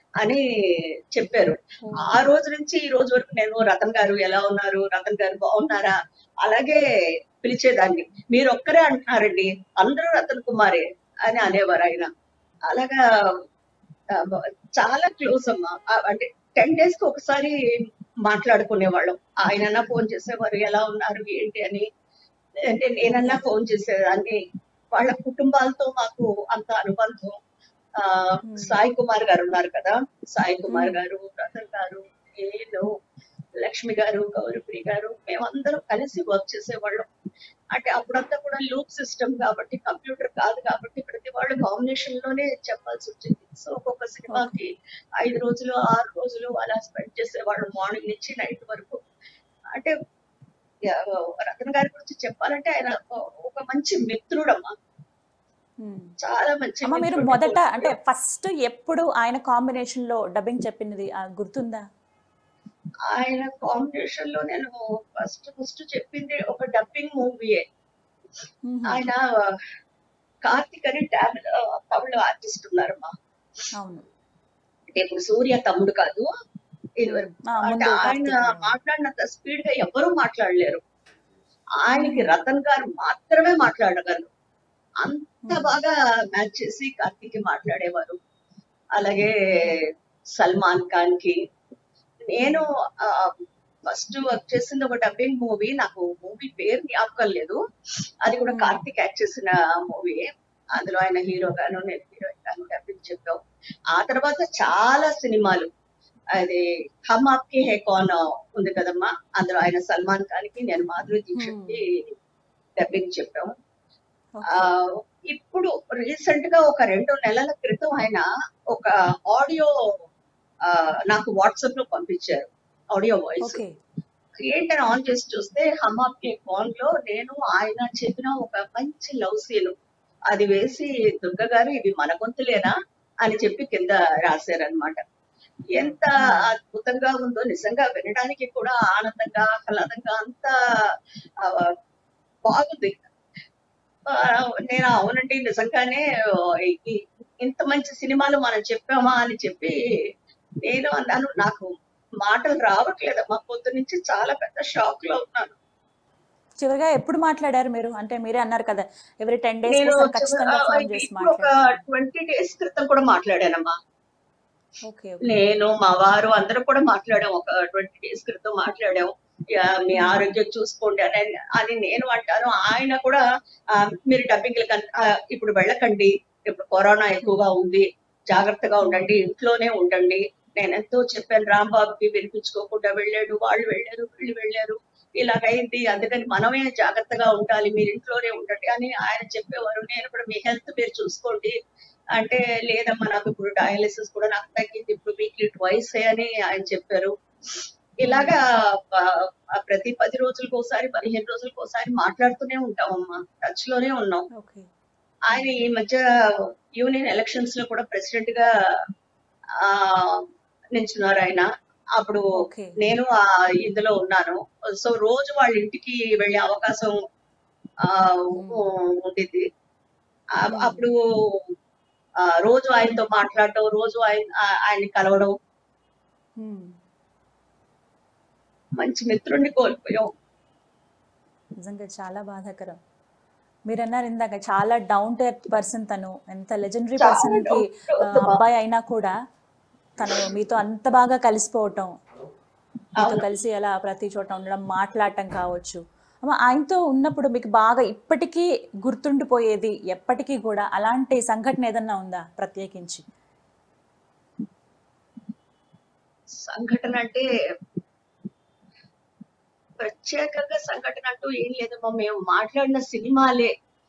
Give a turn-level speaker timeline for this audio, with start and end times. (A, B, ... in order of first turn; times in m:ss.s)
0:01.1-0:06.8 A
0:01.8-0:02.2 B
0:07.4-0:12.1 A
0:12.7-0:13.0 A
0:14.2-0:17.6 A
0:18.3-0:21.9 A
0:22.7-0:24.4 A
0:23.1-0:23.4 B
0:24.9-0:27.4 A
0:28.0-0:32.9 A
0:28.5-0:28.8 B
0:30.7-0:31.0 B
0:33.6-0:37.1 A
0:37.7-0:44.7 A
0:44.3-0:44.6 B
0:45.2-0:49.0 A
0:50.9-0:54.7 A
0:55.8-0:56.1 B
0:56.2-0:58.0 A
0:56.9-1:01.8 B
1:03.1-1:07.6 A
1:08.7-1:09.1 B
1:08.9-1:09.5 A
1:10.5-1:13.1 A
1:14.9-1:16.3 A
1:17.0-1:20.8 A
1:17.1-1:18.8 B
1:21.8-1:24.3 A
1:22.0-1:22.3 B
1:25.0-1:28.2 A
1:25.5-1:25.8 B
1:29.0-1:29.3 A
1:30.4-1:31.4 A
1:32.3-1:33.3 A
1:32.4-1:32.7 B
1:33.9-1:37.6 A
1:38.3-1:43.4 A
1:38.5-1:38.8 B
1:43.9-1:45.7 A
1:46.4-1:52.0 A
1:51.4-1:51.8 B
1:52.8-1:53.5 A
1:54.4-1:54.7 B
1:54.5-1:59.7 A
2:00.7-2:03.6 A
2:03.4-2:03.7 B
2:04.5-2:09.7 A
2:10.3-2:15.0 A
2:15.7-2:20.5 A
2:15.8-2:16.5 B
2:21.4-2:21.7 A
2:22.5-2:23.0 A
2:24.1-2:26.0 A
2:26.7-2:29.8 A
2:30.6-2:31.7 A
2:32.2-2:35.6 A
2:36.6-2:41.8 B
2:39.7-2:43.7 A
2:44.9-2:45.3 B
2:45.2-2:53.2 A
2:50.0-2:50.3 B
2:53.8-3:11.5 A
2:58.8-2:59.1 B
3:12.2-3:17.1 A
3:18.0-3:24.3 A
3:18.1-3:18.4 B
3:24.4-3:24.7 B
3:25.3-3:26.0 A
3:26.8-3:28.5 A
3:29.6-3:30.2 A
3:30.8-3:32.2 A
3:32.4-3:32.8 B
3:32.8-3:37.0 A
3:37.9-3:39.4 A
3:38.3-3:38.6 B
3:40.4-3:41.0 A
3:40.5-3:40.8 B
3:42.4-3:45.3 A
3:46.4-3:46.7 B
3:48.8-3:50.1 A
3:51.6-3:52.8 B
3:53.7-3:59.1 B
3:57.0-3:58.4 A
4:00.0-4:01.9 B
4:03.0-4:03.3 A
4:03.0-4:13.0 B
4:16.4-4:17.2 A
4:19.8-4:23.5 A